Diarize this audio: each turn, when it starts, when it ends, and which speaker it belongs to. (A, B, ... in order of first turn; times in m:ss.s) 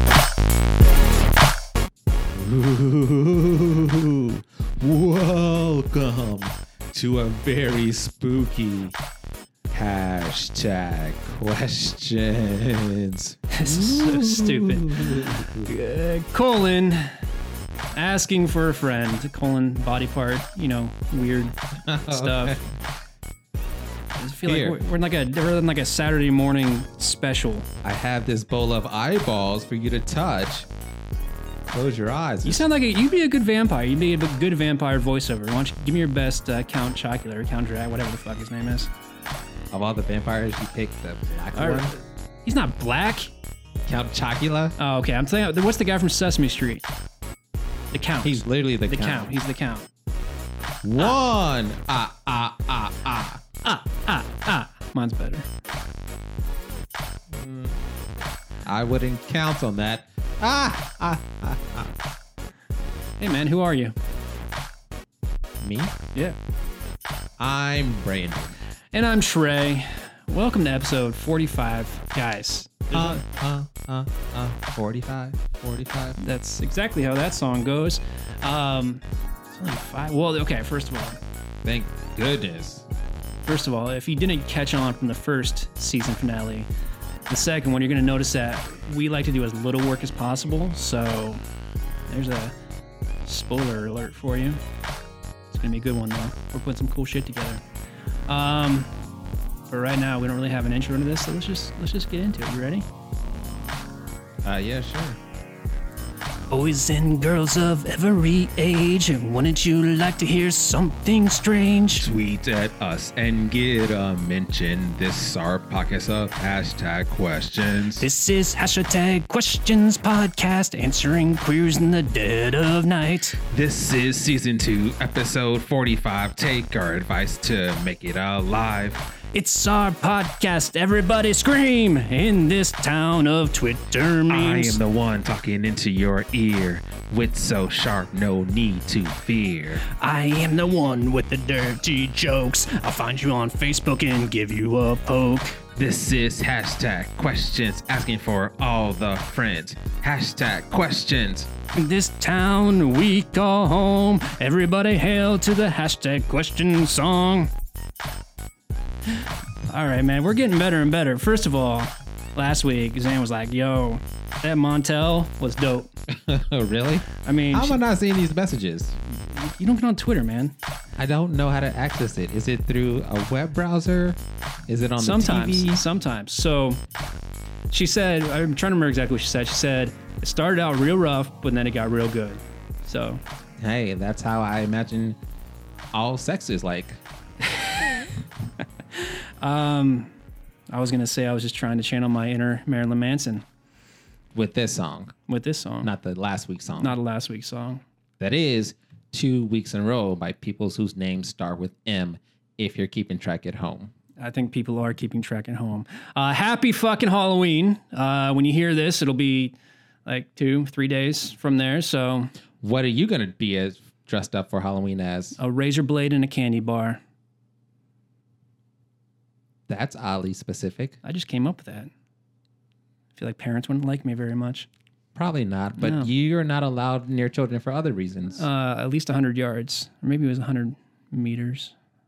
0:02.3-0:09.0 A
0:09.7-0:15.7 A
0:13.5-0:17.2 B
0:17.9-0:22.6 B
0:21.9-0:22.6 A
0:24.2-0:27.7 B
0:24.5-0:24.8 A
0:27.8-0:30.7 A
0:31.7-0:32.7 A
0:32.4-0:38.9 B
0:39.7-0:41.9 A
0:41.6-0:43.3 B
0:43.9-0:44.8 A
0:44.8-0:46.8 B
0:47.9-0:49.9 B
0:48.2-0:49.3 A
0:50.8-0:53.4 A
0:53.7-0:55.5 B
0:57.3-0:57.8 A
0:58.7-1:02.0 A
1:03.2-1:04.0 B
1:05.6-1:05.9 A
1:07.4-1:08.6 A
1:08.9-1:13.2 B
1:12.9-1:16.2 A
1:16.2-1:21.2 B
1:21.6-1:22.9 A
1:23.5-1:26.7 B
1:27.3-1:31.4 B
1:32.1-1:32.5 B
1:33.3-1:34.6 B
1:35.5-1:37.6 B
1:38.3-1:38.9 B
1:39.7-1:42.9 B
1:44.4-1:45.2 A
1:46.5-1:52.1 B
1:52.0-1:58.1 A
1:58.0-2:03.4 B
2:03.4-2:09.1 A
2:09.3-2:14.8 B
2:14.3-2:19.8 A
2:19.9-2:25.6 B
2:25.8-2:31.5 A
2:31.7-2:37.5 B
2:39.7-2:45.9 B
2:46.1-2:49.0 A
2:47.2-2:47.8 B
2:49.3-2:50.6 B
2:51.0-2:55.8 A
2:55.0-2:56.8 B
2:57.7-3:03.2 B
3:03.6-3:05.2 A
3:05.9-3:07.0 A
3:08.9-3:10.1 B
3:10.7-3:13.4 B
3:14.4-3:15.2 A
3:15.3-3:15.9 B
3:15.8-3:17.0 A
3:16.8-3:17.8 B
3:18.2-3:23.9 A
3:24.2-3:29.6 B
3:30.1-3:32.3 B
3:32.6-3:35.4 A
3:35.4-3:37.0 B
3:39.7-3:41.0 A
3:41.0-3:41.9 B
3:43.2-3:44.7 B
3:45.2-3:48.4 A
3:45.8-3:46.1 B
3:48.3-3:51.7 B